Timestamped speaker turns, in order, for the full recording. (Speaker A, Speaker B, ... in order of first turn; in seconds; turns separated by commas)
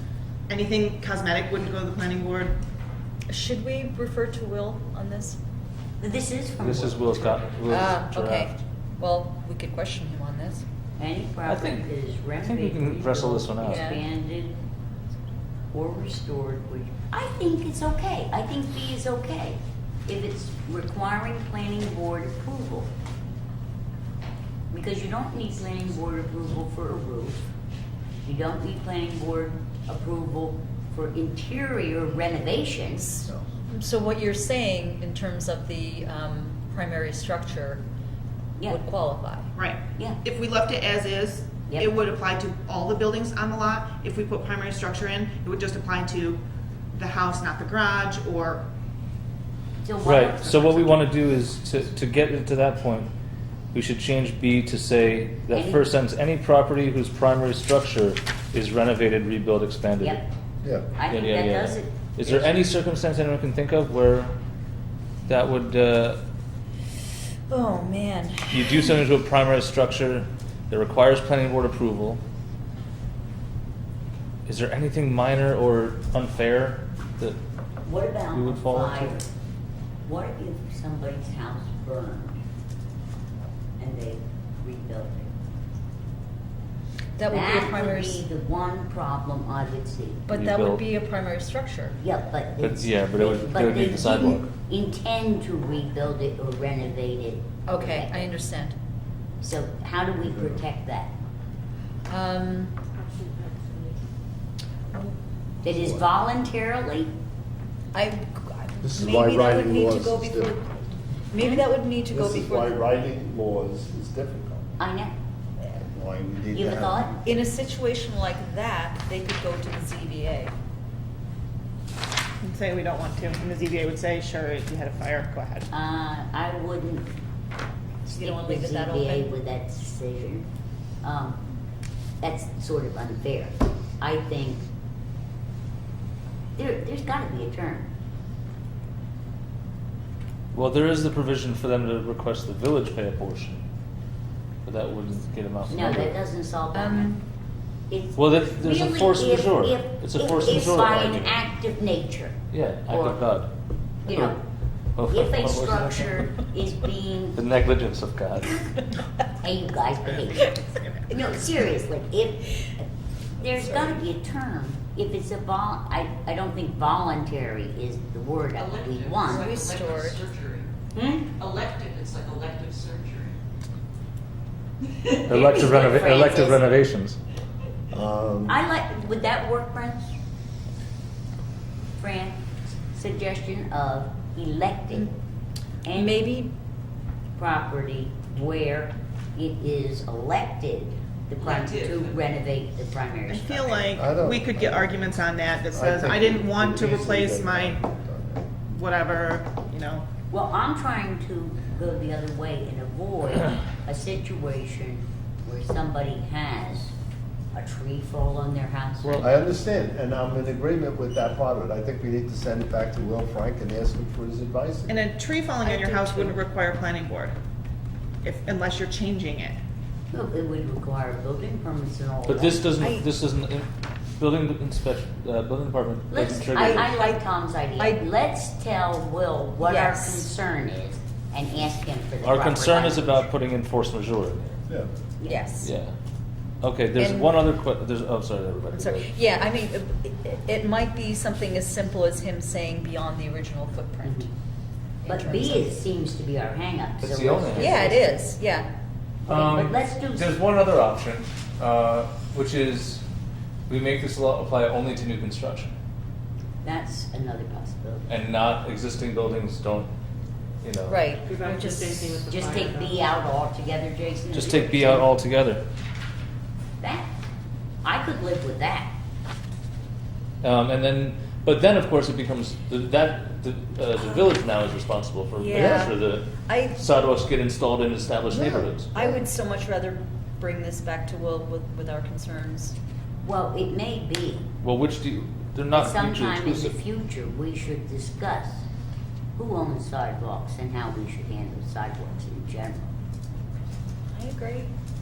Speaker A: 0.5-2.5, Speaker B: 3.3-5.4, Speaker C: 6.0-7.4, Speaker D: 6.6-8.5, Speaker B: 7.7-10.6, Speaker C: 11.0-14.5, Speaker D: 11.4-11.9, Speaker D: 12.4-13.9, Speaker B: 13.6-14.0, Speaker C: 15.7-22.9, Speaker C: 24.7-27.4, Speaker C: 28.2-33.3, Speaker B: 33.7-37.8, Speaker B: 38.6-39.5, Speaker A: 39.5-46.4, Speaker C: 39.9-40.2, Speaker A: 46.9-48.6, Speaker C: 49.8-50.9, Speaker D: 50.0-53.1, Speaker A: 50.0-50.7, Speaker D: 53.7-60.2, Speaker C: 55.5-55.9, Speaker C: 60.0-60.3, Speaker C: 61.0-62.5, Speaker D: 61.1-64.3, Speaker D: 65.2-66.2, Speaker B: 67.5-69.0, Speaker D: 68.5-72.2, Speaker D: 74.5-77.4, Speaker C: 77.8-79.3, Speaker D: 78.3-79.1, Speaker C: 80.0-82.4, Speaker C: 83.8-85.3, Speaker B: 87.2-88.2, Speaker C: 87.3-90.2, Speaker B: 90.3-92.0, Speaker D: 90.3-90.8, Speaker C: 92.0-98.3, Speaker D: 92.6-94.5, Speaker B: 97.7-98.7, Speaker C: 99.4-101.1, Speaker E: 100.2-100.6, Speaker B: 102.1-102.8, Speaker F: 103.0-104.0, Speaker C: 105.6-107.1, Speaker E: 105.7-106.0, Speaker B: 107.9-110.8, Speaker E: 108.8-110.5, Speaker B: 111.3-113.1, Speaker C: 111.4-111.7, Speaker E: 112.1-114.8, Speaker C: 114.8-115.1, Speaker E: 115.7-117.1, Speaker C: 116.5-117.3, Speaker B: 117.2-120.5, Speaker A: 122.4-125.7, Speaker C: 125.7-127.1, Speaker B: 128.1-129.3, Speaker C: 128.1-130.5, Speaker C: 131.0-131.4, Speaker C: 132.2-134.6, Speaker C: 136.6-137.9, Speaker D: 140.5-143.6, Speaker D: 144.6-146.1, Speaker C: 145.7-147.2, Speaker B: 146.7-147.2, Speaker C: 147.9-153.2, Speaker D: 148.2-151.4, Speaker D: 152.5-153.5, Speaker D: 154.1-154.3, Speaker C: 154.1-154.4, Speaker D: 154.9-156.2, Speaker C: 155.1-157.4, Speaker D: 157.3-158.5, Speaker C: 159.4-160.5, Speaker A: 160.0-161.1, Speaker C: 161.1-169.5, Speaker G: 168.5-170.7, Speaker B: 169.3-170.3, Speaker C: 170.9-171.3, Speaker G: 171.3-173.3, Speaker C: 175.1-176.7, Speaker D: 175.2-177.2, Speaker E: 177.9-178.5, Speaker C: 178.5-180.1, Speaker C: 182.0-185.1, Speaker C: 185.8-186.2, Speaker B: 185.9-186.5, Speaker C: 187.3-193.9, Speaker G: 191.4-192.2, Speaker A: 193.3-197.8, Speaker E: 193.9-194.9, Speaker E: 195.7-198.6, Speaker A: 198.6-200.0, Speaker C: 200.3-206.9, Speaker C: 207.5-209.2, Speaker D: 209.0-209.3, Speaker E: 209.2-214.9, Speaker A: 214.9-217.3, Speaker B: 215.6-216.4, Speaker A: 218.2-219.6, Speaker C: 220.1-222.7, Speaker D: 222.3-226.9, Speaker B: 222.8-223.1, Speaker C: 226.1-233.2, Speaker B: 226.5-227.1, Speaker B: 227.8-228.1, Speaker B: 229.6-230.3, Speaker D: 232.2-234.6, Speaker C: 235.2-235.4, Speaker B: 235.2-235.7, Speaker D: 235.6-235.9, Speaker D: 236.6-239.1, Speaker B: 236.9-237.5, Speaker B: 238.7-244.3, Speaker C: 244.0-244.3, Speaker B: 245.0-245.7, Speaker C: 245.1-248.2, Speaker D: 247.0-247.9, Speaker B: 247.6-248.7, Speaker C: 249.2-250.3, Speaker D: 249.3-253.0, Speaker D: 253.7-255.7, Speaker C: 256.6-258.1, Speaker D: 258.1-259.9, Speaker D: 260.6-261.0, Speaker B: 260.9-262.1, Speaker F: 261.2-263.1, Speaker C: 262.2-265.1, Speaker D: 264.3-265.6, Speaker C: 266.8-267.1, Speaker C: 267.8-268.9, Speaker D: 270.4-278.9, Speaker B: 275.3-276.9, Speaker E: 275.5-275.9, Speaker E: 278.3-279.2, Speaker B: 278.9-282.7, Speaker C: 283.2-284.5, Speaker D: 284.6-286.7, Speaker C: 285.7-288.6, Speaker C: 289.4-292.9, Speaker B: 294.1-294.7